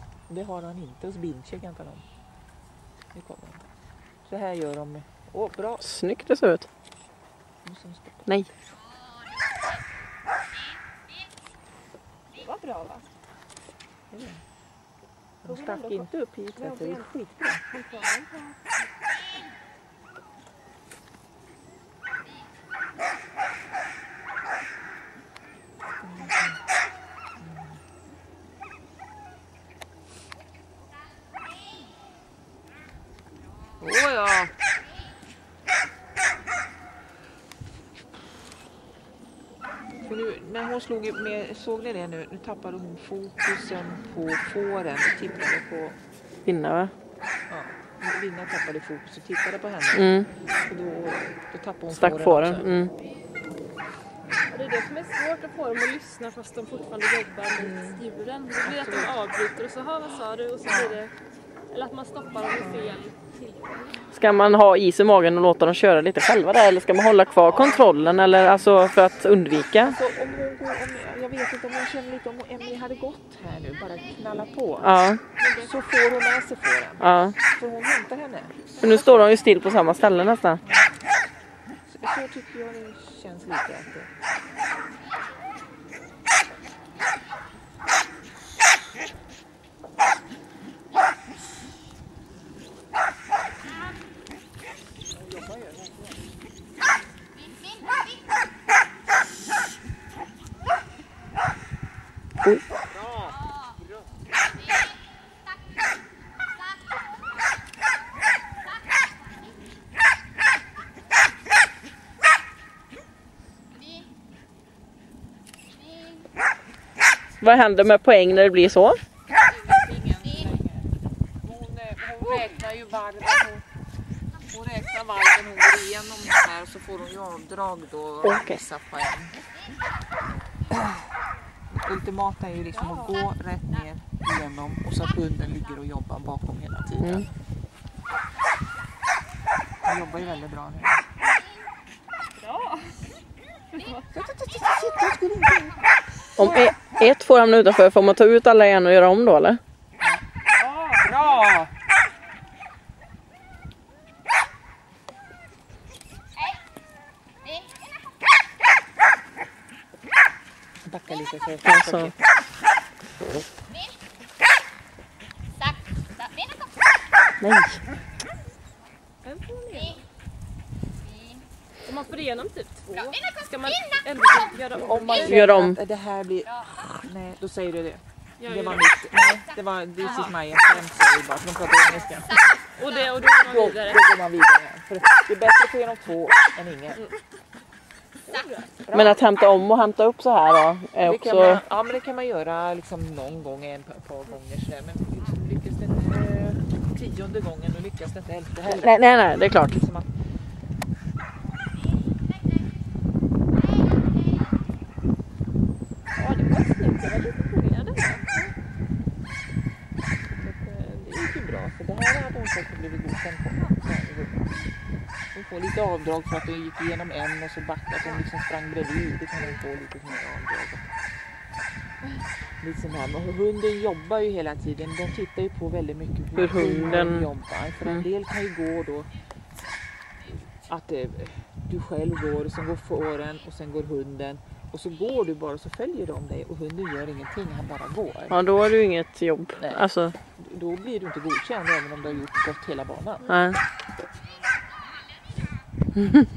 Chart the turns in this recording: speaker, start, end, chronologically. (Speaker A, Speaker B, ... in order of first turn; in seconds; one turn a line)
Speaker A: 0.3-2.1
Speaker A: 3.1-3.7
Speaker A: 4.3-5.9
Speaker B: 5.8-6.7
Speaker A: 7.6-8.4
Speaker C: 12.3-13.1
Speaker A: 14.1-14.4
Speaker A: 15.4-17.6
Speaker C: 15.5-17.1
Speaker C: 17.7-18.6
Speaker A: 26.0-26.6
Speaker A: 27.4-27.7
Speaker A: 33.8-34.5
Speaker A: 40.0-46.0
Speaker B: 46.5-46.9
Speaker A: 47.5-50.1
Speaker B: 49.9-50.3
Speaker A: 50.6-52.7
Speaker B: 51.9-52.9
Speaker C: 54.5-61.1
Speaker A: 57.5-59.1
Speaker A: 60.6-61.0
Speaker C: 61.7-64.0
Speaker A: 62.6-63.0
Speaker B: 64.1-70.0
Speaker A: 67.5-67.9
Speaker A: 69.8-79.4
Speaker B: 74.8-75.2
Speaker C: 75.4-75.7
Speaker B: 77.0-77.3
Speaker B: 78.8-80.6
Speaker A: 80.6-80.9
Speaker A: 81.9-84.1
Speaker B: 117.4-119.0
Speaker A: 119.4-120.9
Speaker A: 121.4-123.6
Speaker A: 124.5-129.4
Speaker B: 128.2-128.6
Speaker A: 130.7-131.1
Speaker A: 131.7-137.3
Speaker B: 137.0-137.3
Speaker A: 139.8-141.1
Speaker C: 142.4-143.1
Speaker C: 143.7-144.1
Speaker A: 144.1-145.8
Speaker A: 146.4-146.7
Speaker B: 146.4-149.6
Speaker A: 150.0-151.7
Speaker A: 160.8-162.5
Speaker B: 161.7-162.1
Speaker B: 167.4-167.8
Speaker C: 169.2-170.1
Speaker C: 171.8-175.4
Speaker A: 174.7-182.6
Speaker B: 175.2-175.8
Speaker C: 178.4-178.9
Speaker C: 182.6-184.0
Speaker A: 183.4-187.0
Speaker C: 188.3-188.7
Speaker A: 188.8-189.2
Speaker B: 188.9-191.6
Speaker A: 191.0-200.1
Speaker B: 198.7-199.8
Speaker C: 206.2-208.5
Speaker A: 210.4-214.6
Speaker A: 215.3-220.9
Speaker A: 222.6-229.1
Speaker B: 226.4-227.3
Speaker A: 230.3-238.4
Speaker B: 238.3-240.2
Speaker A: 239.6-243.3
Speaker B: 243.3-243.6